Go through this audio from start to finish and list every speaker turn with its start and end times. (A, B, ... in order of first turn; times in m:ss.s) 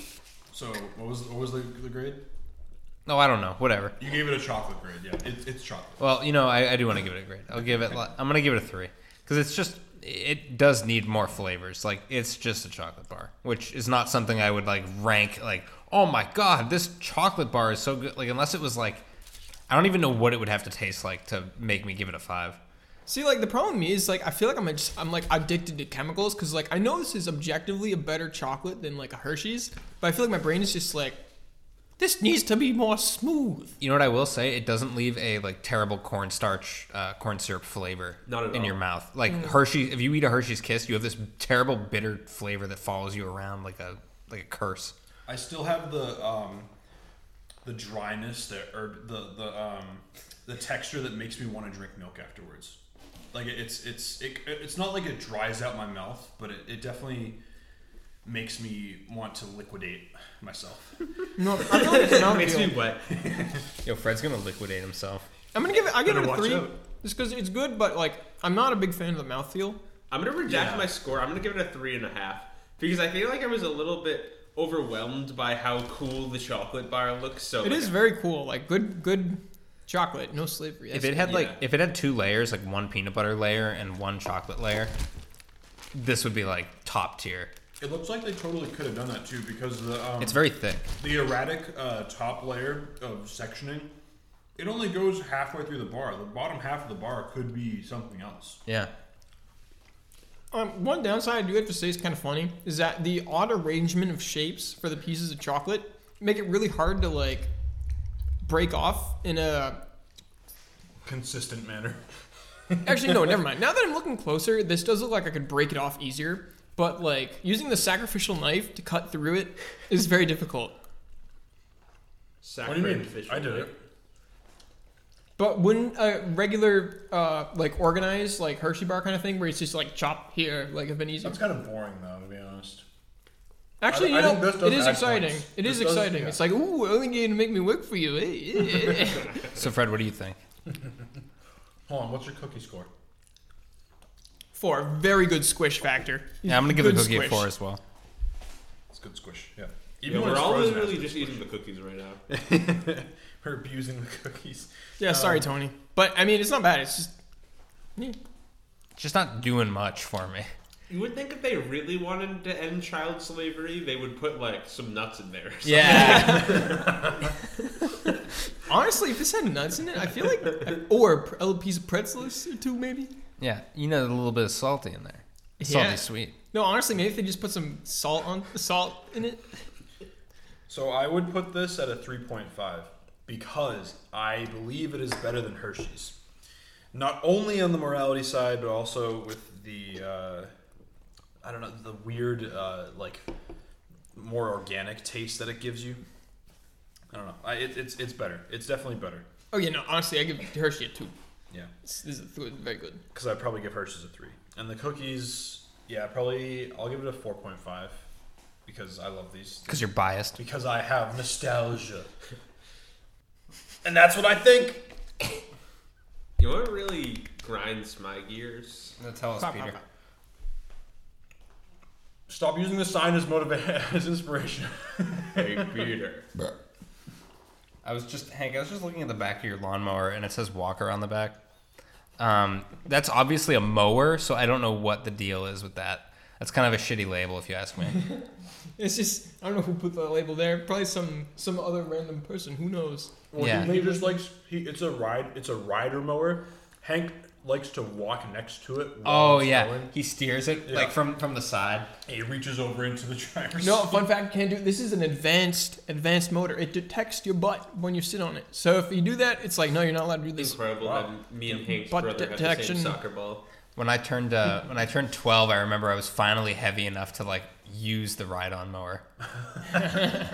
0:00.5-0:02.2 A
0:03.0-0:04.0 B
0:04.0-0:06.0 A
0:06.0-0:19.0 B
0:19.7-0:22.6 B
0:23.1-0:31.2 C
0:32.0-0:33.7 C
0:33.8-0:44.9 B
0:38.2-0:38.8 D
0:45.3-0:46.7 A
0:47.6-0:52.8 A
0:53.3-0:57.4 A
0:58.2-1:01.1 A
1:01.4-1:02.8 C
1:01.7-1:03.0 D
1:03.1-1:03.6 A
1:03.8-1:05.2 B
1:05.5-1:09.8 C
1:05.8-1:06.8 A
1:10.1-1:18.0 D
1:10.5-1:10.9 A
1:17.6-1:21.4 C
1:20.9-1:24.9 B
1:21.2-1:21.6 D
1:25.9-1:27.5 B
1:27.8-1:30.4 A
1:30.2-1:30.9 B
1:31.0-1:33.9 A
1:34.6-1:38.6 A
1:38.6-1:38.9 B
1:40.5-1:47.5 C
1:48.4-1:49.8 C
1:51.0-1:52.0 A
1:52.7-1:53.3 A
1:52.8-2:00.8 C
2:02.4-2:03.7 D
2:02.6-2:03.7 A
2:05.4-2:11.4 C
2:11.2-2:12.8 A
2:13.8-2:19.3 C
2:13.9-2:16.4 A
2:19.4-2:20.4 B
2:21.9-2:22.9 A
2:24.5-2:27.5 C
2:26.4-2:27.8 B
2:28.9-2:31.4 A
2:30.0-2:32.2 D
2:32.3-2:35.5 A
2:35.0-2:37.1 C
2:39.0-2:40.5 B
2:40.9-2:46.9 D
2:45.6-2:46.8 B
2:45.8-2:46.7 C
2:46.6-2:47.0 A
2:48.7-2:53.1 C
2:53.4-2:56.3 B
2:55.6-2:59.6 C
3:00.7-3:06.2 A
3:06.9-3:10.5 A
3:11.4-3:13.2 A
3:14.1-3:16.0 A
3:17.1-3:19.2 A
3:19.5-3:21.1 C
3:21.8-3:23.0 C
3:23.1-3:28.0 A
3:28.6-3:32.1 A
3:29.7-3:30.4 B
3:33.8-3:34.9 A
3:36.4-3:38.9 D
3:39.0-3:39.8 B
3:39.4-3:39.8 C
3:42.3-3:45.7 A
3:45.3-3:46.3 D
3:47.8-3:51.4 B
3:52.2-3:58.0 B
3:58.8-4:04.2 C
4:03.3-4:09.9 A
4:03.4-4:03.7 B
4:09.0-4:11.9 B
4:10.6-4:11.0 A
4:12.0-4:14.1 A
4:13.6-4:20.6 C
4:20.4-4:23.4 D
4:20.8-4:21.7 A
4:21.7-4:23.0 C
4:23.7-4:29.0 B